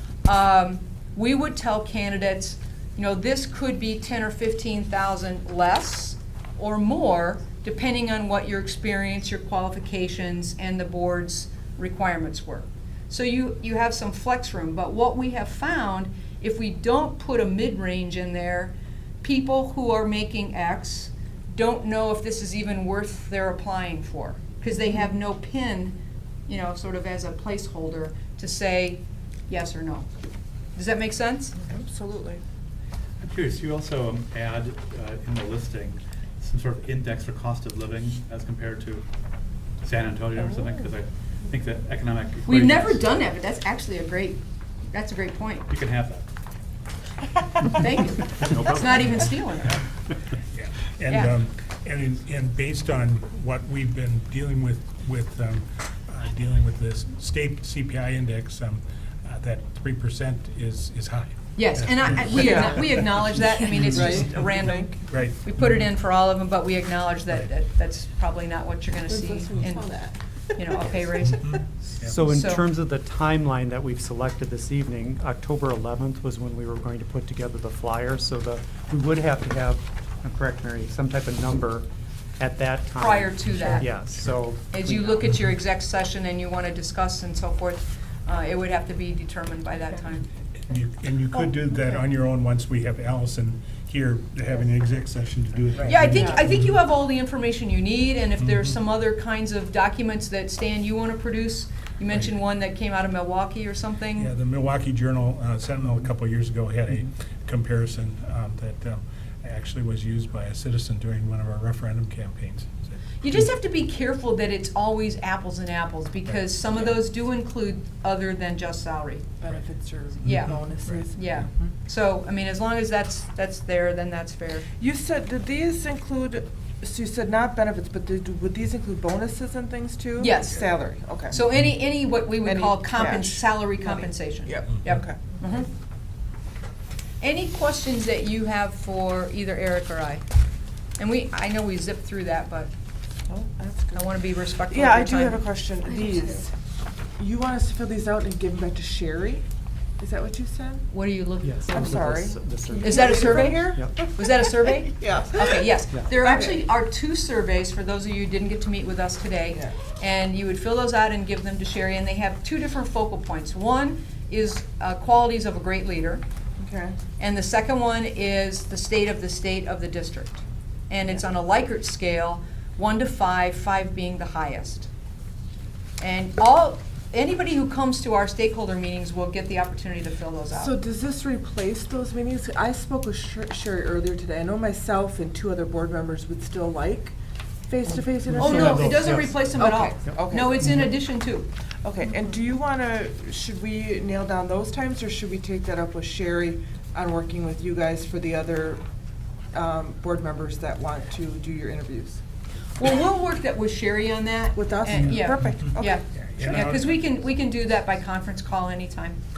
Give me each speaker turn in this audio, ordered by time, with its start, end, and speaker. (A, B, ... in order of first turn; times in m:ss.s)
0:00.2-0:30.1 A
0:30.7-0:31.6 A
0:31.6-0:32.4 B
0:33.2-0:39.0 C
0:39.8-0:43.1 C
0:42.4-0:45.7 A
0:45.7-0:46.2 C
0:47.6-0:49.8 A
0:48.3-0:49.3 C
0:50.5-1:05.9 D
0:51.1-0:51.3 A
1:01.6-1:09.8 A
1:02.3-1:02.8 B
1:03.7-1:04.9 B
1:09.0-1:10.2 B
1:10.6-1:11.6 A
1:11.2-1:12.1 D
1:12.0-1:21.9 E
1:12.2-1:12.6 A
1:22.4-1:25.2 E
1:23.0-1:23.9 A
1:24.7-1:30.3 A
1:30.6-1:36.8 D
1:35.7-1:36.4 B
1:35.8-1:44.3 A
1:38.4-1:38.8 D
1:44.2-1:53.4 D
1:53.2-1:59.3 A
1:59.4-2:01.7 B
2:00.2-2:00.6 A
2:01.1-2:04.7 A
2:04.8-2:11.4 B
2:10.2-2:10.7 A
2:11.3-2:15.7 A
2:12.4-2:15.4 B
2:17.2-2:20.2 A
2:21.0-2:22.7 A
2:23.3-2:24.1 B
2:23.9-2:25.4 A
2:24.7-2:26.5 B
2:27.2-2:29.4 B
2:30.0-2:30.8 B
2:30.9-2:31.8 A
2:31.4-2:33.9 E
2:31.7-2:36.6 B
2:32.8-2:46.2 A
2:46.6-2:47.0 B
2:47.2-2:54.9 A
2:56.0-3:00.7 A
3:00.5-3:07.2 B
3:07.7-3:10.9 B
3:08.2-3:09.6 E
3:08.4-3:11.5 A
3:10.4-3:10.9 E
3:11.8-3:18.8 B
3:19.5-3:22.2 B
3:22.8-3:29.2 A
3:24.6-3:26.0 B
3:26.1-3:27.0 D